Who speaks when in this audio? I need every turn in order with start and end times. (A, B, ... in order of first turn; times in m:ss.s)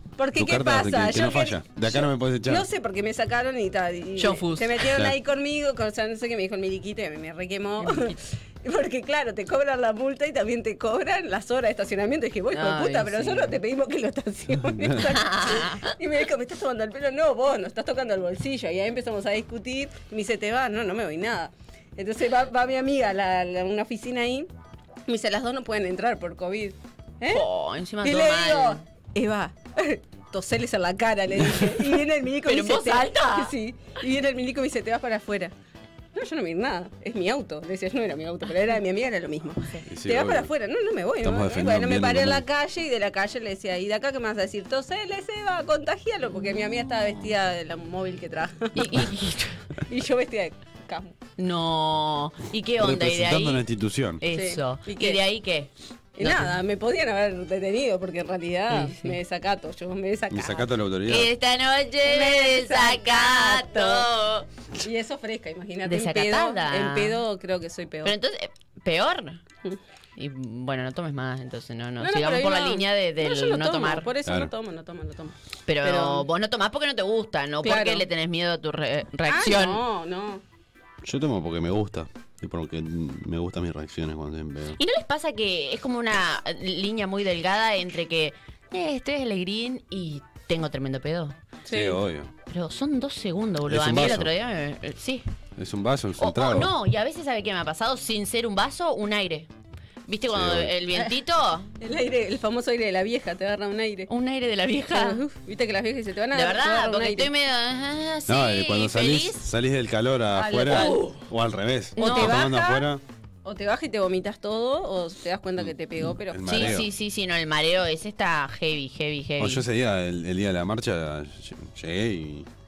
0:00.2-0:24.5 A
0:00.4-0:02.7 B
0:04.2-0:04.9 C
0:07.8-0:08.2 C
0:12.5-0:13.6 C
0:15.0-0:15.9 C
0:25.1-0:27.4 A
0:27.3-0:28.8 C
0:28.0-0:35.5 A
0:32.4-0:33.5 C
0:36.1-0:49.1 A
0:39.9-0:40.5 B
0:41.2-0:42.4 B
0:48.8-0:49.6 C
0:49.8-0:51.2 A
0:51.4-0:53.6 C
0:52.8-0:54.2 B
0:54.2-0:56.6 C
0:54.3-0:55.2 A
0:56.2-1:00.7 A
0:58.7-0:59.2 C
1:00.3-1:01.3 B
1:01.1-1:04.5 C
1:02.0-1:04.1 A
1:04.8-1:08.1 A
1:05.8-1:07.2 C
1:08.0-1:09.4 C
1:10.2-1:14.1 C
1:12.0-1:16.3 A
1:14.2-1:14.5 B
1:15.7-1:19.8 C
1:17.6-1:18.1 A
1:19.3-1:20.4 A
1:21.0-1:24.8 B
1:24.8-1:31.4 C
1:31.7-1:32.0 A
1:31.7-1:32.3 B
1:32.5-1:35.2 C
1:33.7-1:34.3 B
1:35.6-1:36.7 B
1:36.2-1:39.5 C
1:40.1-1:41.7 C
1:40.3-1:40.8 B
1:41.8-1:44.1 A
1:44.1-1:45.2 C
1:44.9-1:47.3 A
1:46.3-1:49.4 C
1:48.3-1:53.0 B
1:50.3-1:51.1 A
1:50.6-1:51.2 C
1:52.0-1:52.5 C
1:52.0-1:52.9 A
1:53.4-1:56.8 A
1:55.6-1:56.9 B
1:56.4-1:59.6 C
1:59.4-2:02.5 B